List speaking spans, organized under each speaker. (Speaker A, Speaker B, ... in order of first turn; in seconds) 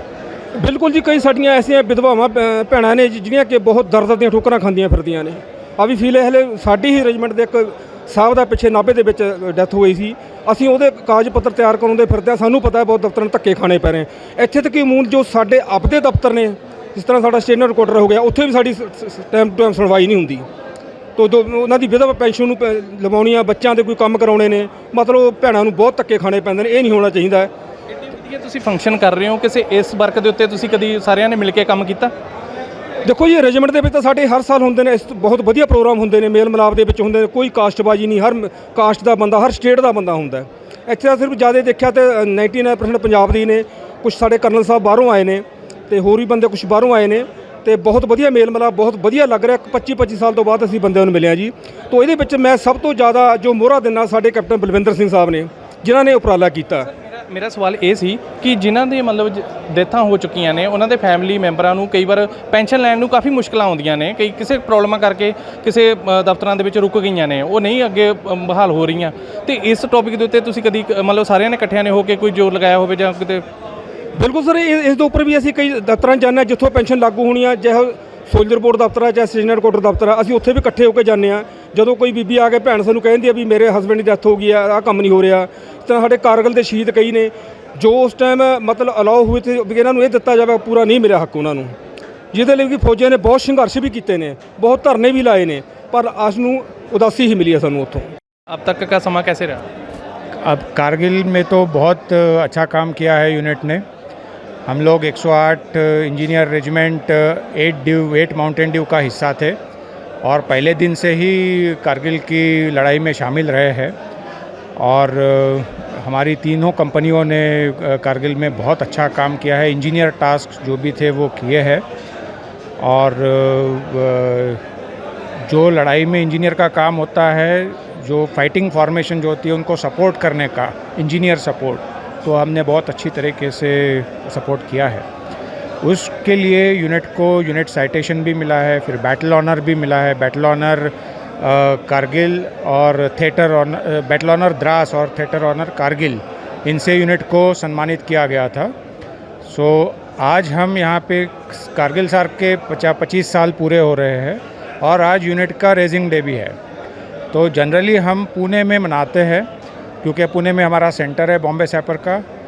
Speaker A: 0.5-20.5, 21.2-27.5, 33.0-56.9, 74.1-91.7, 92.3-98.0
Speaker B: 28.1-32.1, 56.9-73.4, 98.5-99.6
Speaker C: 100.4-103.8, 104.7-109.5, 110.2-113.9, 114.8-121.8, 122.8-124.6, 125.5-135.0, 135.8-148.7, 149.4-156.6, 157.3-159.4, 160.0-162.2